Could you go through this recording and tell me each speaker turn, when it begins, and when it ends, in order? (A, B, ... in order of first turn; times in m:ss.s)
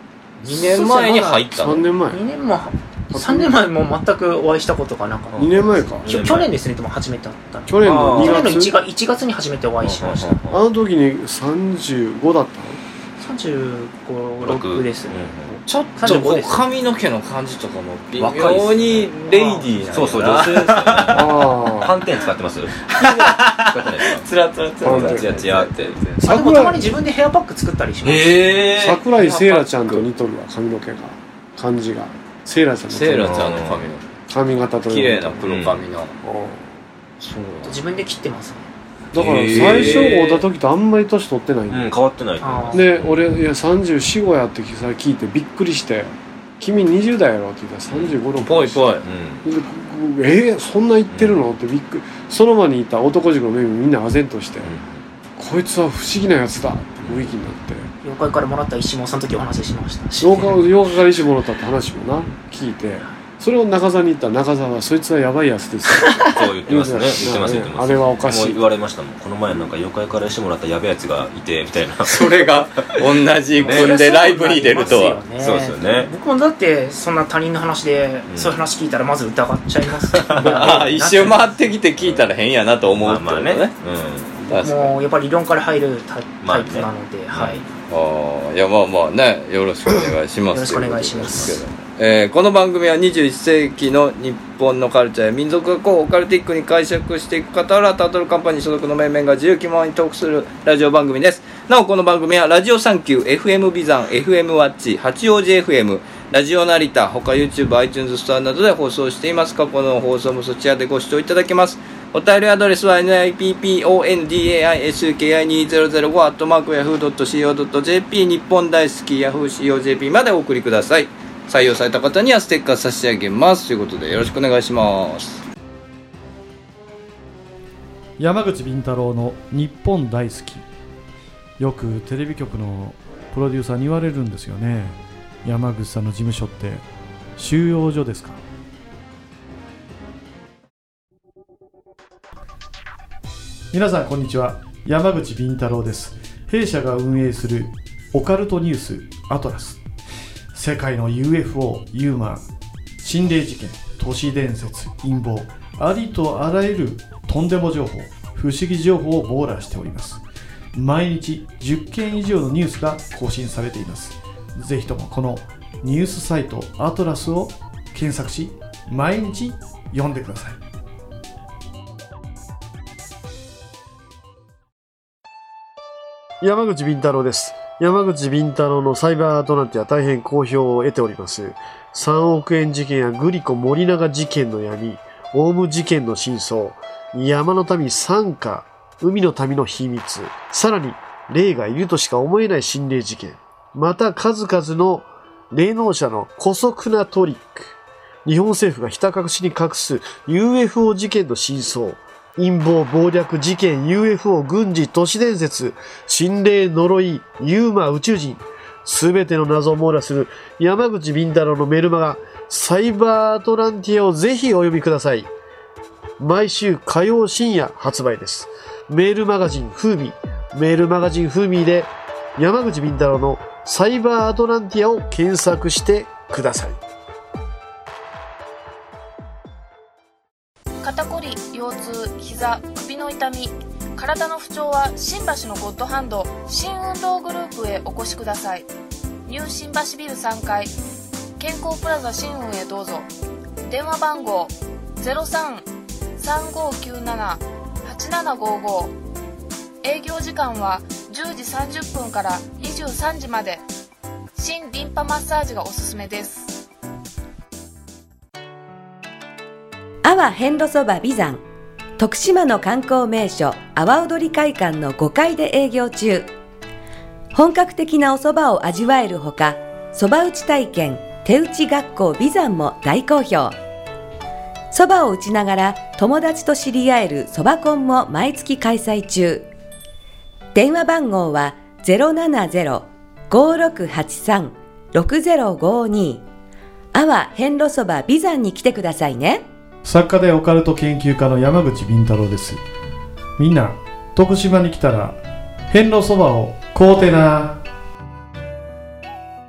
0:00.4-0:01.8 A
0:00.5-0:01.4 B
0:01.5-0:02.2 C
0:02.1-0:10.4 B
0:03.1-0:03.5 C
0:05.3-0:06.2 C
0:06.0-0:06.5 D
0:07.7-0:08.8 C
0:07.8-0:08.5 D
0:09.8-0:10.6 D
0:10.5-0:12.8 C
0:13.2-0:15.2 B
0:14.4-0:15.6 D
0:15.6-0:21.5 A
0:16.0-0:16.6 B
0:18.2-0:19.1 D
0:19.3-0:19.6 B
0:19.8-0:24.2 D
0:21.1-0:22.0 C
0:22.9-0:26.2 A
0:24.8-0:25.3 C
0:24.8-0:26.0 D
0:26.2-0:26.9 C
0:26.2-0:28.6 B
0:28.0-0:30.0 A
0:28.8-0:33.6 C
0:32.9-0:34.0 A
0:33.2-0:33.8 D
0:34.3-0:35.4 C
0:34.9-0:36.1 A
0:35.4-0:35.8 D
0:36.2-0:36.7 C
0:37.2-0:37.8 A
0:37.6-0:38.6 B
0:39.1-0:41.9 C
0:39.1-0:40.5 A
0:39.2-0:40.1 D
0:41.7-0:43.2 D
0:42.4-0:42.8 B
0:42.7-0:54.7 C
0:47.9-0:48.2 D
0:48.4-0:49.0 A
0:49.0-0:49.4 D
0:51.1-0:51.4 D
0:54.6-0:54.9 D
0:55.4-0:57.9 C
0:57.0-0:57.3 D
0:58.0-1:00.6 B
1:00.2-1:08.6 C
1:06.3-1:13.0 D
1:12.0-1:15.2 A
1:13.6-1:21.5 B
1:13.6-1:14.0 D
1:14.8-1:16.1 D
1:18.3-1:18.6 D
1:20.2-1:20.8 D
1:20.3-1:23.7 A
1:22.0-1:22.2 D
1:22.9-1:24.6 D
1:24.5-1:24.9 A
1:24.6-1:27.6 B
1:26.4-1:27.6 D
1:27.9-2:05.4 A
1:30.5-1:31.6 B
1:31.3-1:31.5 D
2:08.2-2:10.6 E
2:11.6-2:16.8 E
2:17.4-2:18.4 E
2:23.7-2:29.8 E
2:30.5-2:32.4 E
2:33.0-2:40.2 E
2:40.7-2:50.6 E
2:56.4-3:17.7 C
3:18.2-3:35.3 C
3:36.2-3:46.8 C
3:50.8-3:58.7 F
3:59.3-4:00.7 F
4:01.4-4:03.1 F
4:03.6-4:08.9 F
4:09.8-4:13.6 F
4:14.3-4:16.6 F
4:20.0-4:21.4 G
4:22.0-4:26.3 G
4:27.3-4:33.6 G
4:34.7-4:39.5 G
4:40.5-4:46.2 G
4:46.9-4:49.4 G
4:49.8-4:52.6 E
4:53.4-4:55.2 E
4:55.7-4:57.6 E